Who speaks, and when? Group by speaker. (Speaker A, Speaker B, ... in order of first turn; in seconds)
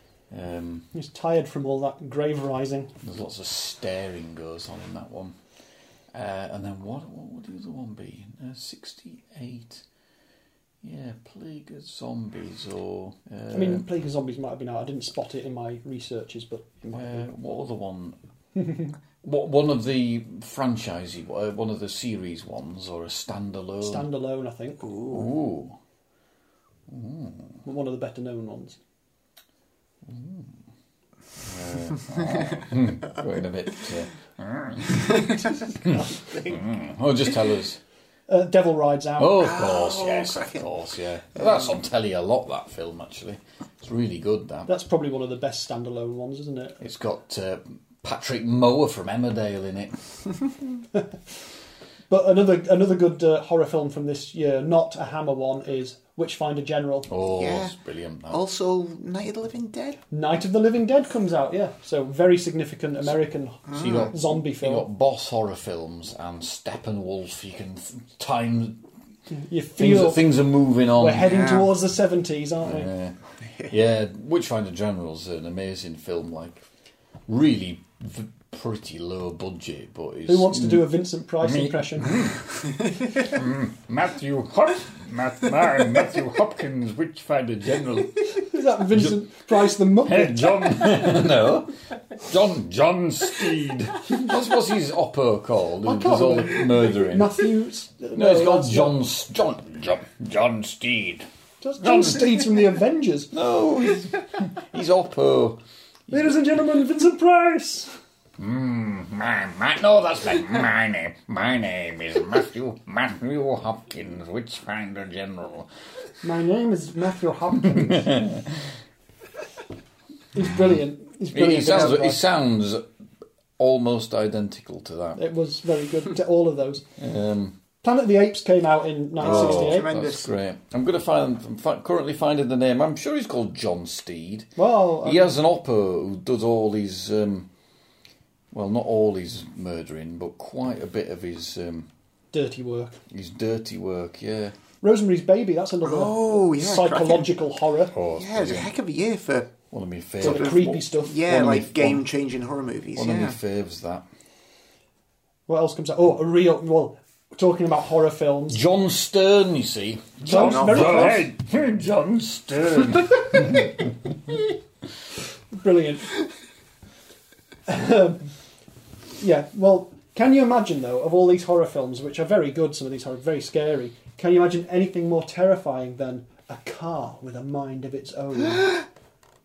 Speaker A: 0.3-0.9, 3.0-5.3, 6.1-9.8, 10.8-13.8, 16.9-18.2, 19.2-24.1, 25.1-25.8, 26.9-27.6, 30.1-30.6, 31.4-37.8, 39.2-44.7, 46.8-50.0, 57.1-58.4, 63.7-68.8, 69.8-71.4, 72.6-76.6, 77.3-80.9, 81.4-82.5, 83.2-88.4, 90.0-97.4, 98.2-101.3, 101.8-102.4, 103.3-106.3, 108.4-115.7, 117.7-118.6, 121.3-122.9, 123.6-125.2, 127.0-127.6, 129.2-137.5, 138.5-141.9, 143.1-144.5, 147.9-148.7, 149.7-152.1, 152.9-154.1, 158.5-163.9
Speaker B: 0.9-2.9, 13.5-17.3, 18.6-18.9, 23.8-24.9, 27.6-28.8, 38.3-39.5, 44.7-46.8, 52.1-57.1, 60.1-64.9, 69.3-70.3, 71.0-72.9, 80.3-82.3, 88.4-90.9, 95.8-99.0, 101.6-103.3, 106.1-107.9, 116.2-118.2, 120.3-122.2, 125.2-126.8, 127.8-129.9, 134.6-135.3, 142.3-143.0, 144.8-147.9, 150.2-151.2, 155.5-158.6, 160.2-161.3, 165.5-166.2, 167.7-168.2, 169.2-178.8
Speaker C: 24.9-25.2, 36.2-36.5, 39.4-40.6, 57.3-57.8, 58.3-60.0, 63.7-64.1, 71.2-71.7, 129.2-130.3, 145.8-147.3, 148.2-149.6, 150.2-153.4, 160.3-161.1